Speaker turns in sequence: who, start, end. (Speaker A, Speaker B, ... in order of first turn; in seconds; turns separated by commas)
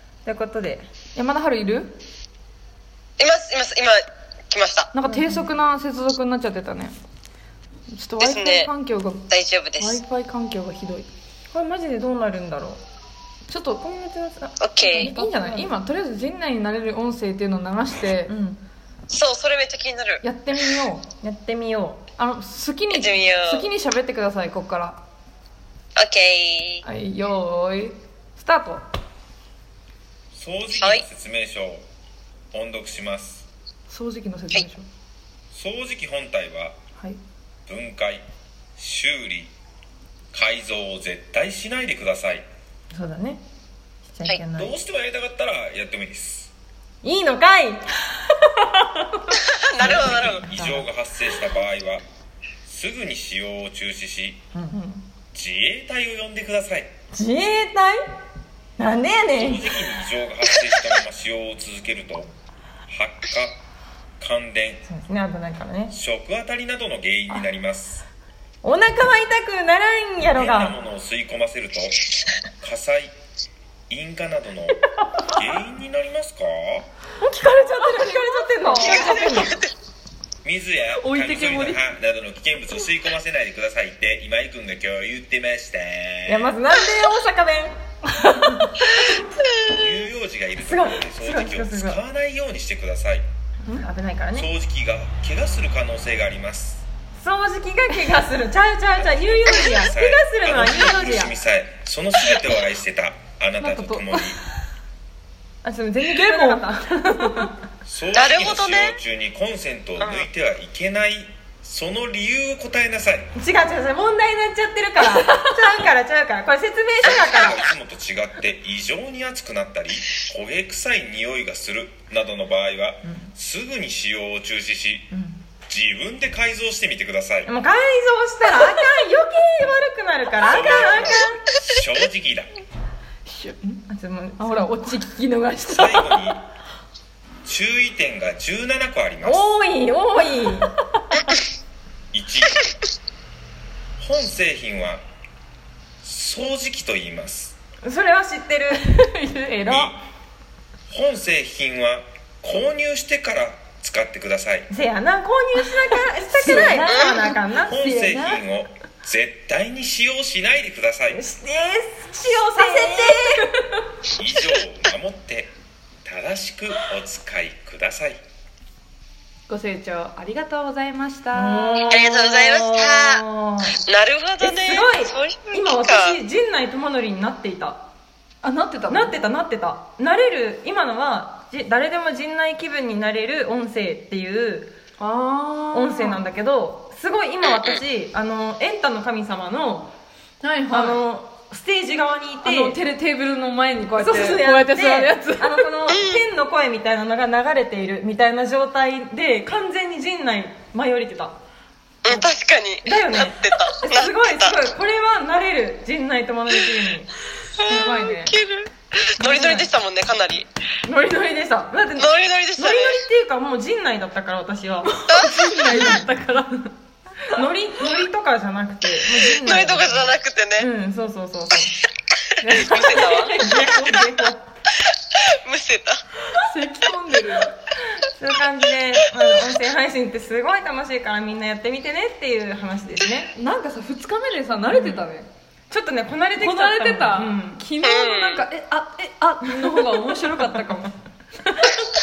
Speaker A: 0.2-0.9, Speaker B: 1.1-2.0, Speaker C: 3.2-4.9, Speaker B: 4.9-6.9, Speaker A: 5.0-5.5, Speaker B: 7.9-9.2, Speaker C: 8.2-8.7, Speaker C: 9.3-10.0, Speaker B: 9.8-11.1, Speaker A: 11.5-12.8, Speaker B: 13.5-14.0, Speaker A: 13.8-15.7, Speaker C: 14.6-15.1, Speaker B: 14.8-18.3, Speaker A: 18.3-18.6, Speaker C: 19.1-20.2, Speaker B: 20.2-21.1, Speaker A: 21.2-22.0, Speaker B: 22.2-25.0, Speaker C: 22.9-23.7, Speaker C: 25.9-26.8, Speaker B: 26.8-28.8, Speaker D: 30.3-31.8, Speaker C: 30.8-31.0, Speaker D: 32.5-33.5, Speaker B: 33.9-34.8, Speaker D: 35.5-36.8, Speaker D: 37.6-38.2, Speaker D: 38.8-39.5, Speaker D: 40.3-42.5, Speaker A: 42.9-43.4, Speaker A: 44.0-44.7, Speaker D: 44.5-46.5, Speaker A: 47.0-48.0, Speaker C: 49.5-50.4, Speaker A: 49.8-50.9, Speaker D: 49.8-52.0, Speaker D: 52.6-54.5, Speaker A: 54.5-54.8, Speaker B: 54.7-55.0, Speaker D: 55.3-56.9, Speaker A: 57.1-58.0, Speaker A: 58.8-59.7, Speaker D: 59.3-62.3, Speaker D: 62.9-63.6, Speaker D: 64.2-64.8, Speaker A: 64.8-65.9, Speaker D: 65.9-68.0, Speaker A: 68.6-70.8, Speaker D: 70.3-72.0, Speaker D: 72.6-73.1, Speaker D: 73.9-76.9, Speaker A: 77.2-79.6, Speaker B: 77.4-79.4, Speaker C: 78.7-79.7, Speaker D: 80.4-86.5, Speaker B: 80.9-81.8, Speaker A: 86.2-87.8, Speaker B: 88.1-88.7, Speaker C: 88.8-89.8, Speaker D: 89.7-93.2, Speaker A: 90.6-92.0, Speaker A: 93.6-94.5, Speaker D: 94.3-96.8, Speaker A: 97.2-101.3, Speaker D: 99.0-104.4, Speaker B: 103.6-104.2, Speaker A: 105.6-107.5, Speaker B: 106.1-107.5, Speaker D: 107.8-113.3, Speaker C: 108.1-109.0, Speaker C: 110.0-110.2, Speaker A: 113.3-117.6, Speaker B: 115.0-115.5, Speaker D: 117.0-125.1, Speaker A: 125.1-125.4, Speaker D: 125.7-127.5, Speaker A: 127.4-131.4, Speaker D: 130.4-132.6, Speaker B: 133.2-133.8, Speaker A: 133.9-135.0, Speaker B: 134.4-136.3, Speaker D: 135.7-136.4, Speaker D: 137.4-139.5, Speaker A: 139.2-140.7, Speaker B: 140.1-141.3, Speaker D: 142.1-142.6, Speaker D: 144.0-145.0, Speaker D: 146.0-147.6, Speaker A: 147.8-149.0, Speaker B: 148.8-149.9, Speaker D: 149.6-150.0, Speaker D: 150.9-154.7, Speaker A: 154.7-158.4, Speaker B: 155.6-157.4, Speaker C: 156.9-157.2, Speaker D: 157.6-161.2, Speaker A: 161.1-163.5, Speaker B: 162.2-163.5, Speaker D: 164.2-168.2, Speaker B: 169.5-172.0, Speaker A: 171.3-173.7, Speaker C: 171.9-173.2, Speaker C: 173.8-176.2, Speaker A: 174.4-177.8, Speaker B: 178.4-179.1, Speaker A: 178.9-184.7, Speaker B: 185.0-186.2, Speaker A: 185.7-189.9, Speaker C: 187.4-187.7, Speaker B: 190.4-191.0, Speaker A: 190.7-192.8, Speaker B: 192.4-195.7, Speaker A: 194.0-201.4, Speaker C: 195.9-196.2, Speaker C: 202.0-204.6, Speaker A: 202.1-202.3, Speaker A: 202.8-207.1, Speaker C: 207.6-210.5, Speaker B: 207.7-208.3, Speaker B: 209.2-209.6, Speaker A: 209.3-209.6, Speaker A: 210.8-214.9, Speaker C: 212.0-213.0, Speaker B: 214.8-216.7, Speaker C: 215.0-216.0, Speaker A: 215.7-216.0, Speaker A: 217.3-221.8, Speaker C: 219.4-220.7, Speaker A: 222.4-224.4, Speaker C: 222.6-223.6, Speaker B: 222.8-224.0, Speaker C: 225.4-226.0, Speaker B: 226.3-227.5, Speaker A: 228.0-233.3, Speaker B: 233.3-235.3, Speaker A: 234.7-235.0, Speaker A: 235.7-237.6, Speaker B: 236.4-240.9, Speaker C: 237.8-238.4, Speaker A: 239.4-240.6